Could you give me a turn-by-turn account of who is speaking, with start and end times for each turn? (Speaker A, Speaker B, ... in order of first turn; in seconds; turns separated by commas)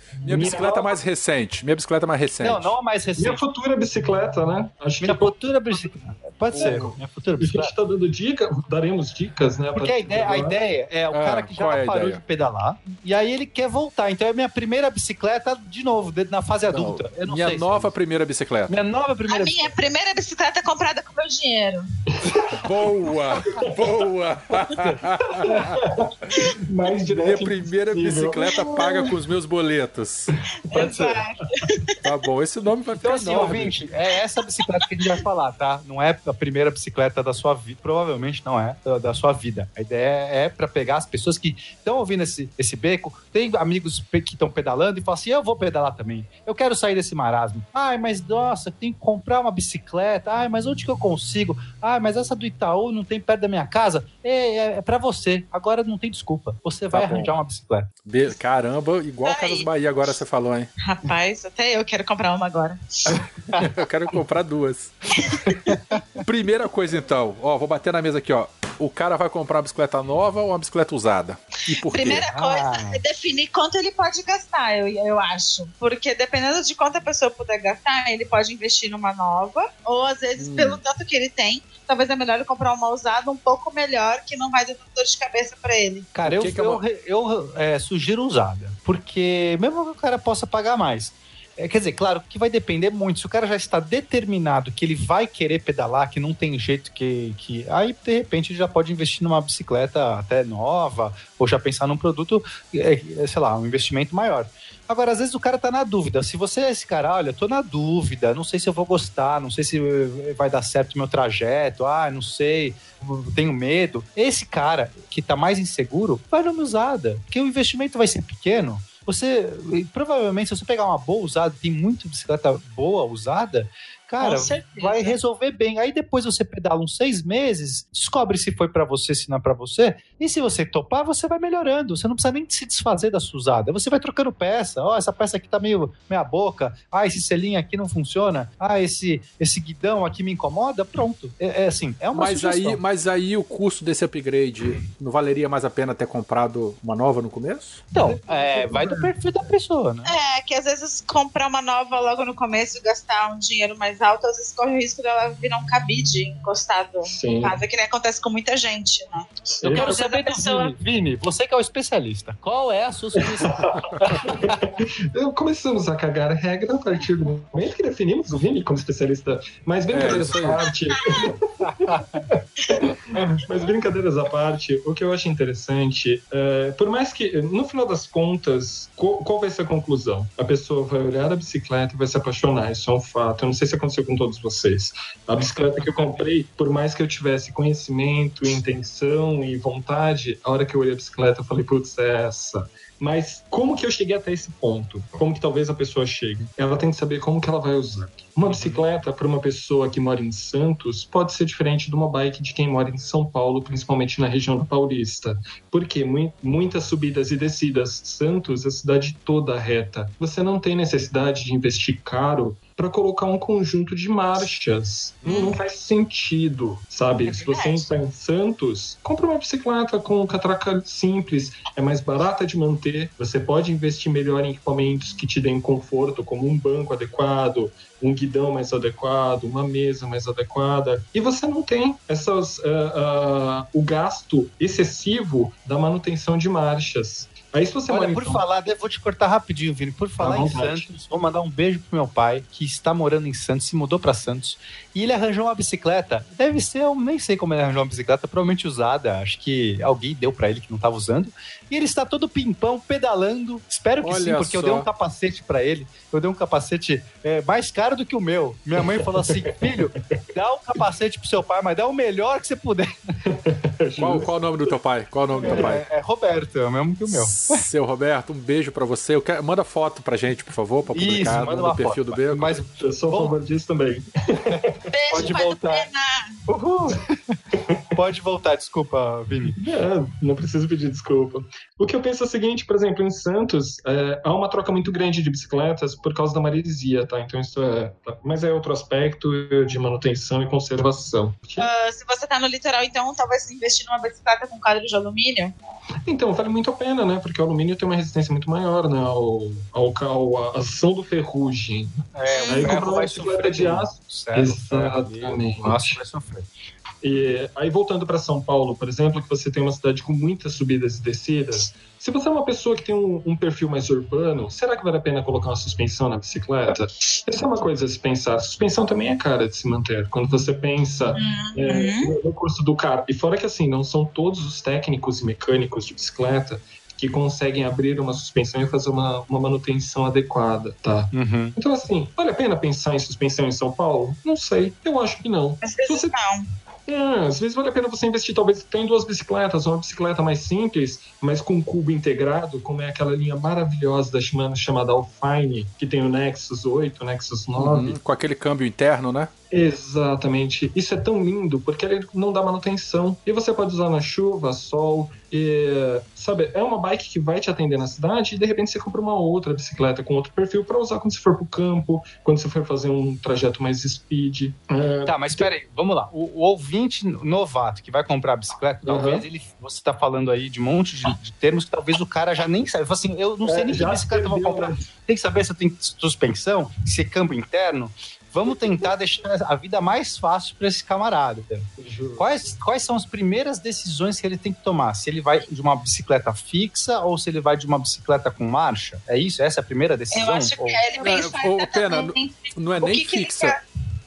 Speaker A: 0.2-1.0, Speaker B: 0.2-2.7, Speaker C: 2.4-3.4, Speaker A: 3.2-5.9, Speaker C: 5.0-7.7, Speaker B: 6.5-7.0, Speaker A: 6.5-10.6, Speaker C: 9.8-17.9, Speaker B: 11.1-12.2, Speaker B: 16.7-18.8, Speaker C: 18.7-19.7, Speaker D: 19.3-21.9, Speaker A: 22.1-22.5, Speaker C: 22.4-22.8, Speaker B: 22.6-26.3, Speaker A: 23.4-23.9, Speaker A: 24.9-29.1, Speaker B: 27.1-30.4, Speaker D: 30.7-32.0, Speaker A: 30.7-31.2, Speaker C: 30.8-31.1, Speaker B: 32.0-33.8, Speaker C: 33.0-57.9, Speaker B: 56.9-57.3, Speaker B: 58.0-60.7, Speaker D: 59.2-59.7, Speaker D: 60.8-62.8, Speaker B: 63.6-65.2, Speaker C: 65.7-66.0, Speaker B: 66.2-72.3, Speaker D: 71.8-86.1, Speaker C: 72.2-73.0, Speaker B: 80.4-80.8, Speaker C: 86.2-142.8, Speaker B: 86.2-86.8, Speaker D: 124.2-125.2, Speaker B: 142.1-147.8, Speaker A: 147.9-149.1, Speaker C: 147.9-150.1, Speaker D: 150.1-160.8, Speaker A: 157.1-157.6, Speaker A: 159.5-160.8, Speaker C: 159.6-160.0, Speaker C: 160.8-164.7, Speaker A: 163.2-238.4, Speaker B: 169.9-170.7, Speaker D: 171.0-171.3, Speaker C: 171.7-172.2, Speaker D: 215.2-215.6, Speaker D: 217.3-217.9, Speaker C: 237.9-262.9, Speaker A: 240.2-240.9, Speaker B: 254.0-254.9, Speaker A: 263.3-264.3, Speaker B: 264.0-265.8, Speaker A: 265.4-265.7, Speaker C: 265.4-267.6, Speaker B: 267.1-272.6, Speaker C: 270.9-273.3, Speaker A: 272.6-274.8, Speaker C: 274.5-275.9, Speaker D: 274.9-276.3, Speaker C: 276.5-277.4, Speaker C: 277.9-279.6, Speaker A: 279.6-291.7, Speaker D: 291.6-295.6, Speaker A: 296.1-301.9, Speaker C: 302.1-306.5, Speaker D: 302.3-302.9, Speaker A: 302.5-306.0, Speaker A: 307.0-336.1, Speaker D: 321.2-322.1, Speaker C: 331.1-331.6, Speaker D: 335.6-336.4, Speaker A: 336.9-348.0, Speaker B: 347.6-349.3, Speaker A: 349.5-365.5, Speaker C: 365.1-390.8, Speaker A: 368.9-369.2, Speaker A: 373.4-374.9, Speaker A: 381.8-382.3, Speaker D: 390.1-393.6, Speaker B: 391.0-393.6